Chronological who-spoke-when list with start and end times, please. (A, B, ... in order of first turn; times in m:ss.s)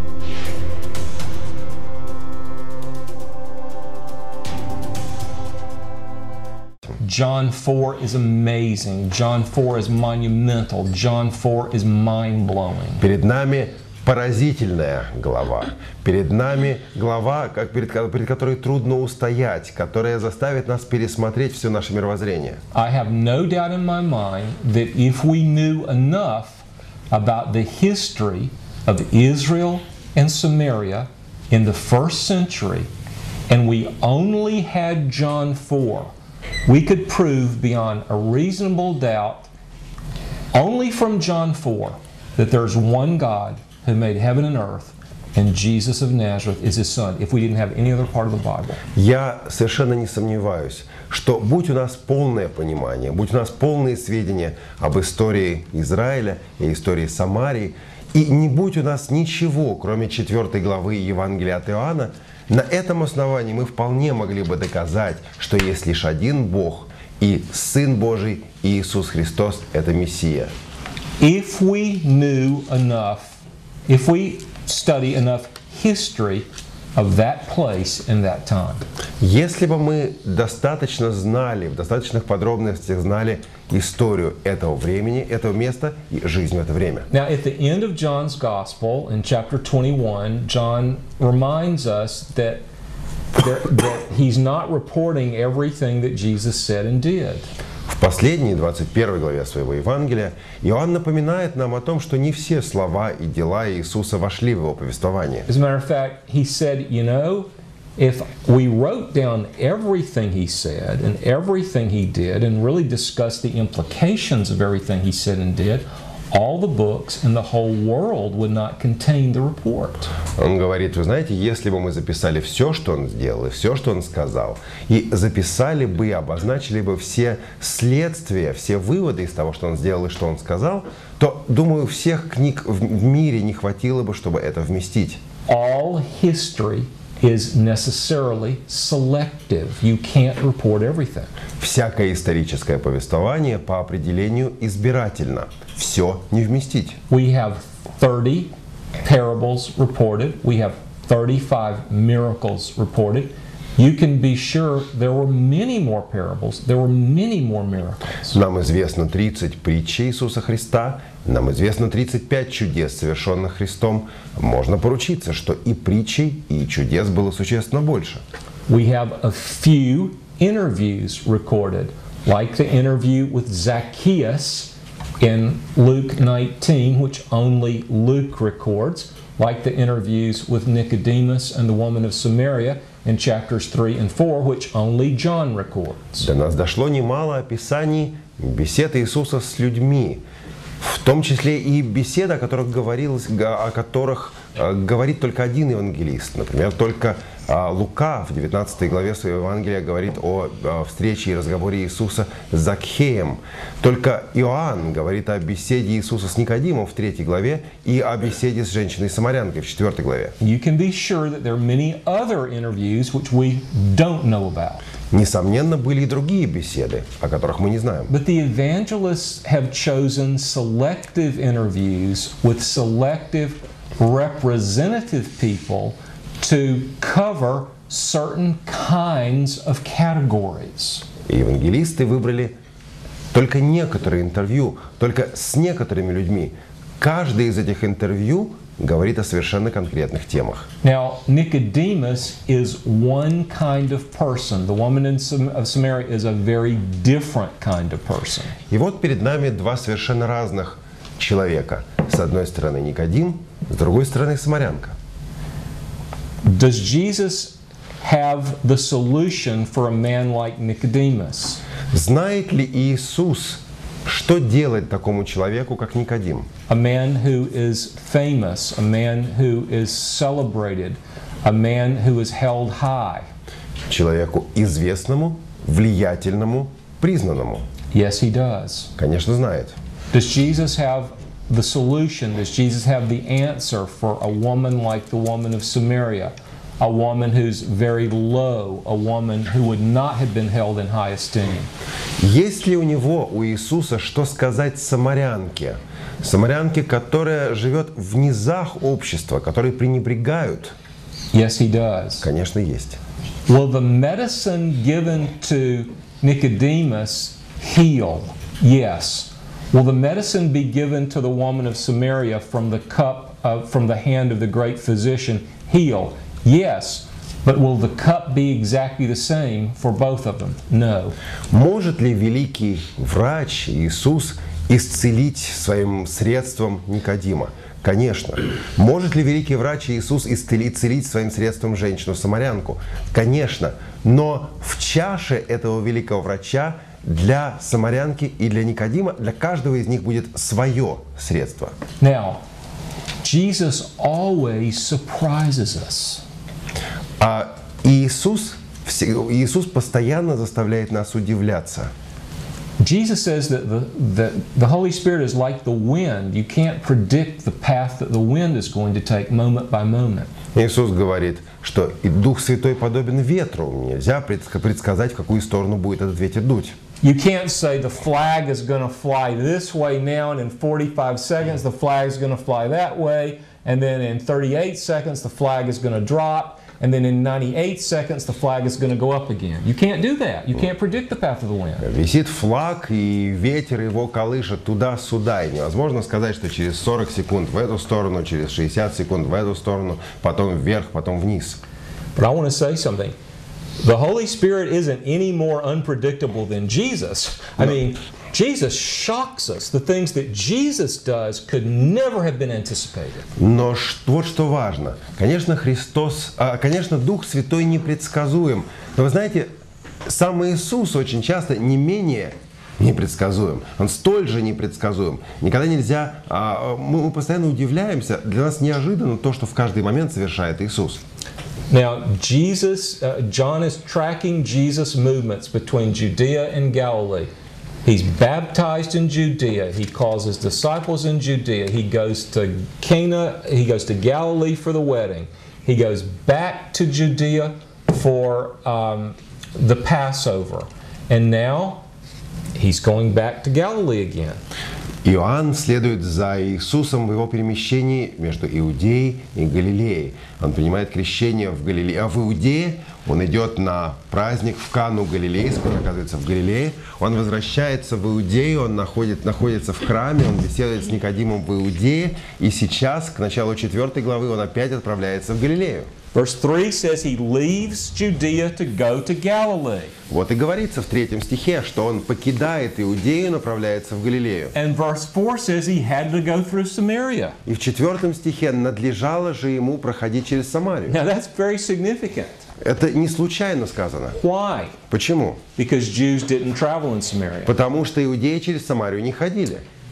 0:07.0-0:13.0 A
0:13.0-0:22.6 B
0:22.7-0:32.9 A
0:33.5-0:36.1 A
0:36.7-0:39.5 A
0:40.5-0:48.8 A
0:49.0-1:10.5 B
1:11.2-1:18.8 A
1:19.2-1:27.1 B
1:27.1-1:32.6 A
1:33.4-1:37.5 A
1:37.9-1:45.5 B
1:45.5-2:00.1 A
2:00.4-2:15.2 B
2:15.5-2:21.3 A
2:21.6-2:27.0 B
2:27.1-2:28.5 A
2:29.0-2:38.4 A
2:38.3-2:48.2 B
2:48.7-3:06.3 A
3:06.2-3:10.2 B
3:10.8-3:30.4 B
3:30.4-3:34.8 A
3:35.1-3:38.1 B
3:38.1-3:51.0 A
3:51.3-3:52.6 B
3:53.3-4:00.7 B
4:00.8-4:08.6 A
4:08.7-4:15.0 B
4:16.4-4:21.6 A
4:21.9-4:26.5 B
4:26.7-4:33.3 A
4:33.9-4:37.7 B
4:37.9-4:38.9 A
4:39.0-4:39.8 B
4:40.1-4:51.7 A
4:52.2-5:00.7 B
5:01.3-5:02.3 A
5:02.2-5:03.0 B
5:03.5-5:21.2 A
5:21.5-5:41.8 B
5:42.0-5:42.4 A
5:43.2-5:46.2 A
5:47.2-5:51.9 B
5:52.8-6:00.3 A
6:00.6-6:06.8 B
6:07.0-6:21.9 A
6:21.8-6:31.6 B
6:32.2-6:33.2 A
6:33.8-6:43.3 A
6:43.4-6:49.5 B
6:50.1-7:01.0 B
7:01.7-7:07.3 A
7:07.8-7:21.8 A
7:22.6-7:24.4 A
7:25.0-7:45.9 B
7:46.1-7:50.0 A
7:50.1-7:54.6 B
7:54.5-7:57.4 A
7:57.5-8:01.0 B
8:00.9-8:02.4 A
8:02.6-8:04.2 B
8:04.2-8:04.8 A
8:04.9-8:05.4 B
8:05.6-8:07.5 A
8:07.5-8:09.6 B